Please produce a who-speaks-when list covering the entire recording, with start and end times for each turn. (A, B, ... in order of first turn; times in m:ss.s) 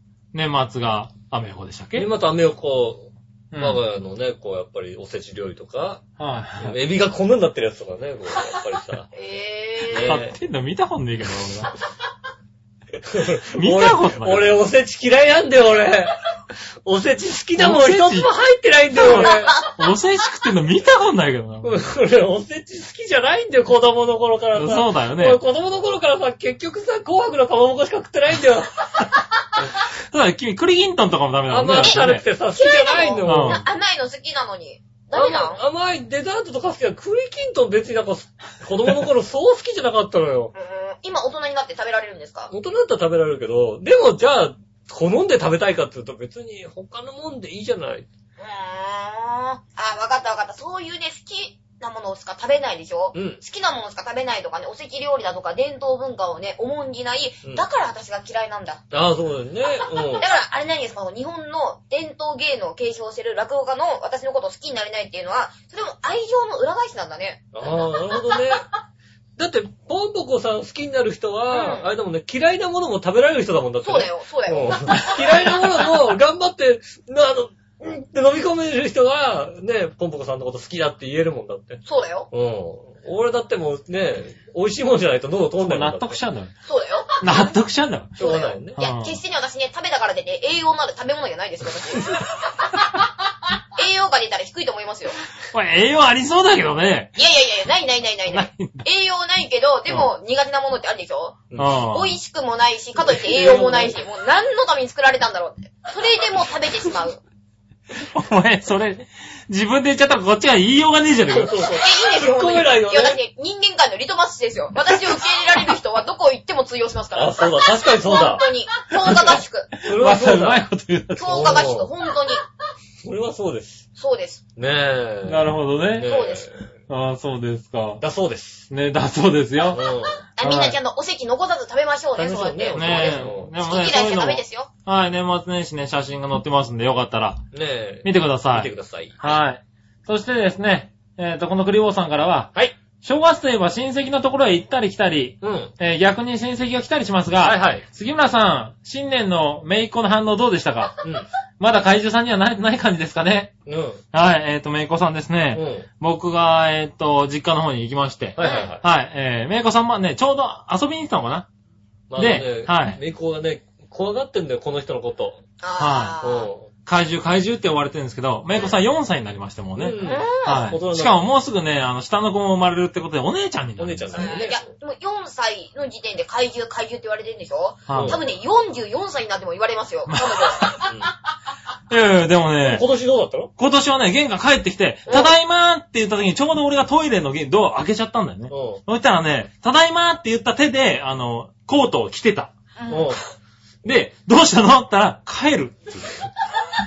0:00.3-0:02.1 A
0:02.0-0:06.0 B
0:03.5-0:03.8 A
0:06.2-0:06.8 A
0:06.6-0:09.1 B
0:09.1-0:10.2 C
0:09.9-0:10.3 B
0:10.0-0:11.7 A
0:13.0-0:16.1 B
0:13.5-0:14.6 A
0:16.8-0:19.5 B
0:17.6-0:18.3 A
0:19.0-0:21.7 A
0:19.0-0:19.7 C
0:21.6-0:28.7 B
0:24.5-0:25.4 A
0:30.1-0:32.2 A
0:31.5-0:33.6 B
0:31.8-0:35.6 C
0:33.2-0:33.6 A
0:35.1-0:40.5 B
0:40.5-0:42.5 C
0:42.5-0:48.0 B
0:48.4-0:58.8 C
0:53.1-0:53.4 B
0:58.9-1:00.2 B
1:00.2-1:07.5 C
1:07.5-1:08.6 B
1:09.4-1:26.2 B
1:11.5-1:11.9 C
1:13.8-1:15.2 C
1:21.8-1:22.3 C
1:25.6-1:26.5 A
1:26.6-1:27.5 C
1:27.2-1:28.2 A
1:28.2-1:28.8 B
1:28.2-1:32.2 C
1:28.8-1:29.2 A
1:33.8-1:35.2 C
1:35.5-1:37.1 A
1:37.2-1:47.2 C
1:38.3-1:38.8 A
1:41.5-1:41.8 B
1:41.6-1:42.2 A
1:43.0-1:44.0 B
1:47.9-1:51.6 A
1:51.3-1:53.2 B
1:51.8-1:59.7 C
1:57.1-1:58.4 B
1:58.9-2:01.6 A
1:59.8-2:00.6 B
2:01.2-2:02.4 C
2:01.3-2:01.9 B
2:03.0-2:03.8 B
2:04.0-2:04.4 C
2:04.6-2:06.5 B
2:05.2-2:06.1 A
2:06.0-2:06.5 C
2:06.9-2:08.0 A
2:08.0-2:08.7 B
2:08.7-2:09.8 A
2:09.7-2:10.2 B
2:10.4-2:14.7 C
2:10.4-2:10.8 A
2:12.2-2:13.5 B
2:12.7-2:17.4 A
2:17.5-2:19.2 B
2:18.0-2:22.5 A
2:23.0-2:31.0 A
2:25.4-2:25.7 B
2:27.4-2:27.8 B
2:31.6-2:33.5 A
2:33.6-2:34.0 B
2:34.1-2:41.5 A
2:35.5-2:35.9 B
2:38.4-2:38.8 B
2:38.4-2:38.7 C
2:42.1-2:45.4 B
2:42.2-2:43.0 A
2:45.6-2:46.5 C
2:45.8-2:46.2 A
2:46.2-2:46.7 B
2:46.8-2:54.4 A
2:49.8-2:51.2 B
2:50.0-2:50.7 C
2:53.8-2:54.6 B
2:54.1-3:00.7 C
2:57.9-2:58.2 A
2:57.9-2:58.2 B
3:00.1-3:00.9 A
3:00.8-3:01.1 B
3:01.9-3:02.8 A
3:02.6-3:03.5 B
3:03.6-3:12.5 A
3:08.5-3:08.8 B
3:12.8-3:13.2 C
3:12.9-3:13.2 B
3:13.8-3:16.2 A